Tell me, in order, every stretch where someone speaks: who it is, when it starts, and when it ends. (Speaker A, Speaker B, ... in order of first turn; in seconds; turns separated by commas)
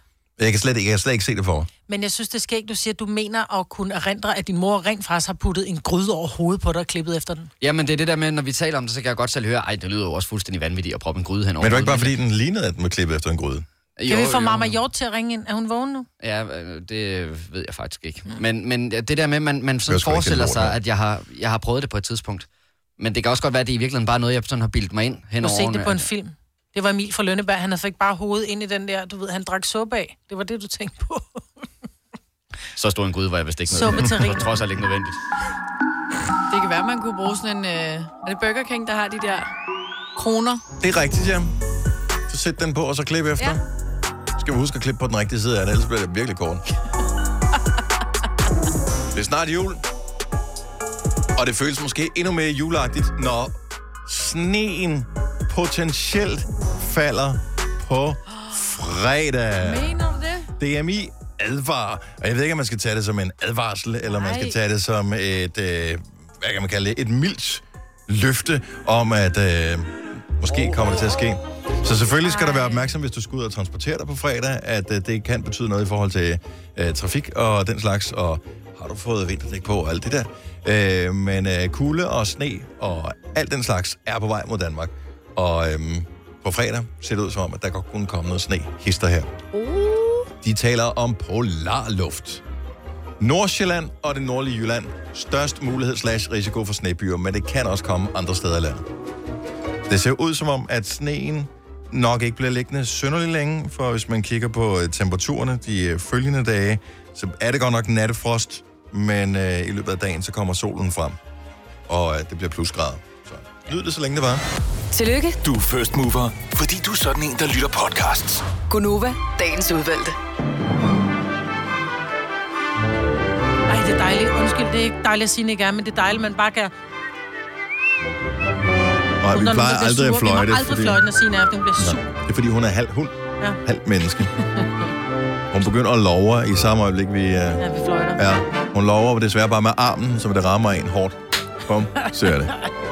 Speaker A: 0.4-1.7, Speaker B: 1.9-7.5, Speaker C: 7.6-12.2, Speaker A: 11.6-13.6, Speaker C: 14.0-14.8, Speaker B: 14.1-16.1, Speaker C: 16.2-22.5, Speaker A: 19.9-20.8, Speaker C: 23.0-26.1, Speaker B: 25.4-31.4, Speaker C: 32.8-35.2, Speaker B: 33.7-34.5, Speaker D: 36.5-39.5, Speaker D: 40.1-40.6, Speaker A: 40.8-41.5, Speaker A: 42.3-43.6, Speaker A: 44.4-46.6, Speaker A: 49.1-49.8, Speaker A: 51.4-60.0, Speaker D: 58.3-58.7, Speaker D: 59.6-60.5, Speaker A: 60.6-89.3, Speaker D: 64.1-64.5, Speaker B: 72.2-72.8, Speaker A: 90.4-92.4, Speaker A: 93.2-98.8, Speaker A: 99.9-111.2, Speaker A: 111.9-114.4, Speaker E: 114.9-115.4, Speaker F: 115.4-118.5, Speaker E: 118.7-120.2, Speaker B: 123.7-126.7, Speaker A: 129.2-131.0, Speaker B: 129.3-132.1, Speaker A: 131.8-134.3, Speaker A: 135.5-137.6, Speaker B: 137.6-138.2, Speaker A: 138.2-142.6